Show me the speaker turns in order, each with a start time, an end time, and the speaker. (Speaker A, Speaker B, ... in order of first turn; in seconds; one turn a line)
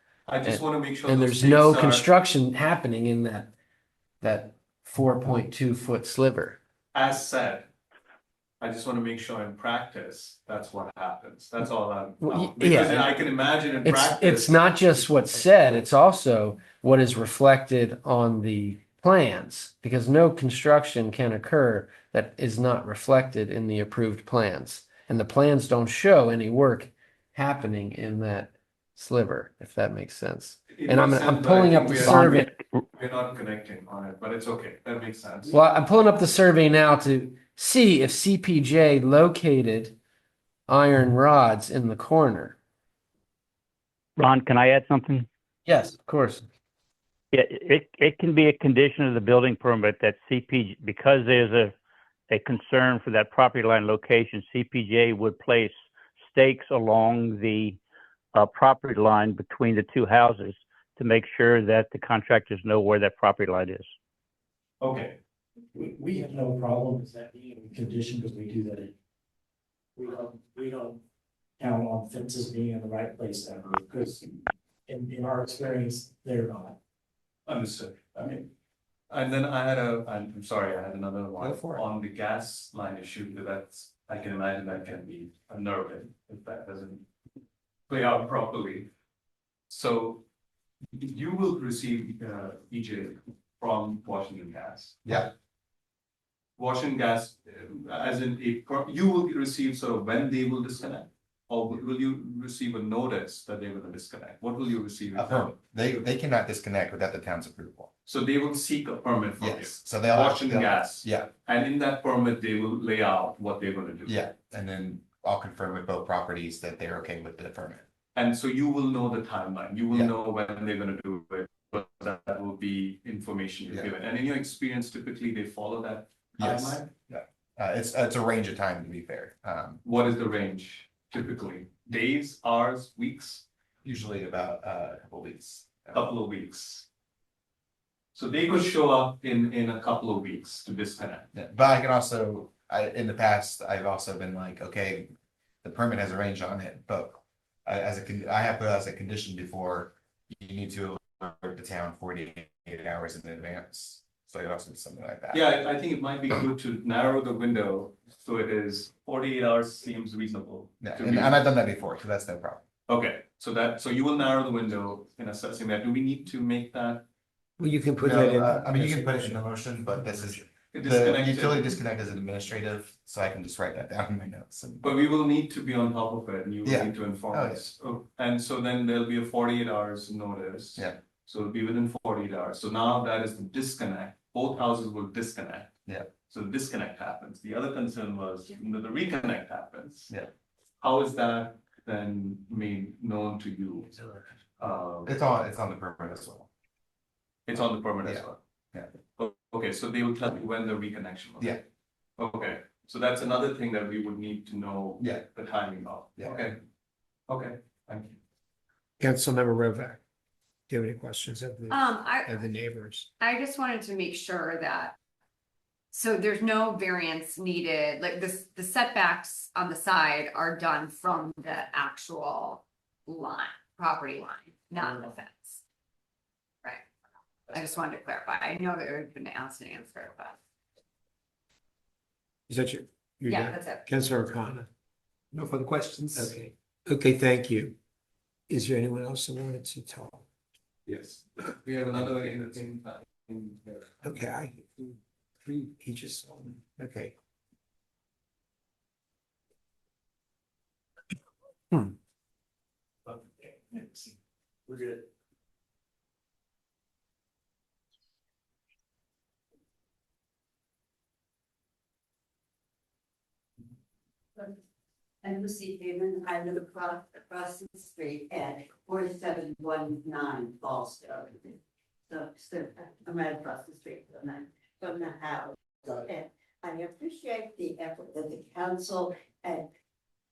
Speaker A: 0.3-2.1
Speaker B: 0.4-3.5
Speaker B: 4.2-6.6
Speaker A: 6.9-7.7
Speaker A: 8.6-15.1
Speaker B: 12.2-13.1
Speaker B: 13.8-32.5
Speaker A: 30.7-35.6
Speaker B: 35.5-40.0
Speaker B: 40.7-42.6
Speaker C: 44.2-45.3
Speaker B: 45.7-46.4
Speaker C: 47.3-51.8
Speaker C: 52.3-57.8
Speaker C: 58.3-63.9
Speaker A: 64.8-65.2
Speaker D: 65.7-68.9
Speaker D: 70.0-71.0
Speaker D: 71.6-74.3
Speaker D: 74.9-76.8
Speaker A: 77.5-78.5
Speaker A: 79.1-87.0
Speaker E: 81.4-81.8
Speaker A: 87.9-88.9
Speaker A: 89.7-90.2
Speaker A: 91.0-95.3
Speaker F: 95.0-95.3
Speaker A: 96.6-105.6
Speaker F: 105.2-107.9
Speaker A: 108.1-114.2
Speaker F: 109.4-111.3
Speaker F: 114.1-117.8
Speaker A: 118.2-126.9
Speaker F: 123.7-123.9
Speaker F: 126.4-129.8
Speaker A: 129.8-133.4
Speaker F: 133.8-136.1
Speaker A: 135.9-136.9
Speaker A: 138.2-141.3
Speaker F: 141.3-145.1
Speaker F: 145.6-155.5
Speaker A: 155.3-161.6
Speaker F: 160.8-162.6
Speaker A: 162.9-167.0
Speaker E: 167.6-169.4
Speaker F: 168.0-174.9
Speaker A: 170.7-171.8
Speaker A: 174.8-185.7
Speaker F: 176.7-177.6
Speaker A: 186.3-190.1
Speaker A: 190.8-195.2
Speaker F: 195.1-196.5
Speaker A: 197.5-198.4
Speaker F: 198.0-198.9
Speaker A: 199.2-201.6
Speaker A: 202.2-206.6
Speaker F: 205.0-205.2
Speaker F: 206.2-206.5
Speaker A: 207.3-208.2
Speaker E: 209.0-210.0
Speaker E: 210.7-213.1
Speaker G: 211.7-212.5
Speaker G: 213.2-215.0
Speaker G: 215.9-225.6
Speaker G: 227.5-230.4
Speaker E: 232.5-234.7
Speaker G: 233.3-233.9
Speaker E: 235.3-237.8
Speaker E: 238.5-240.2
Speaker A: 240.9-243.9
Speaker E: 244.0-247.1
Speaker H: 265.2-271.6
Speaker H: 272.1-279.7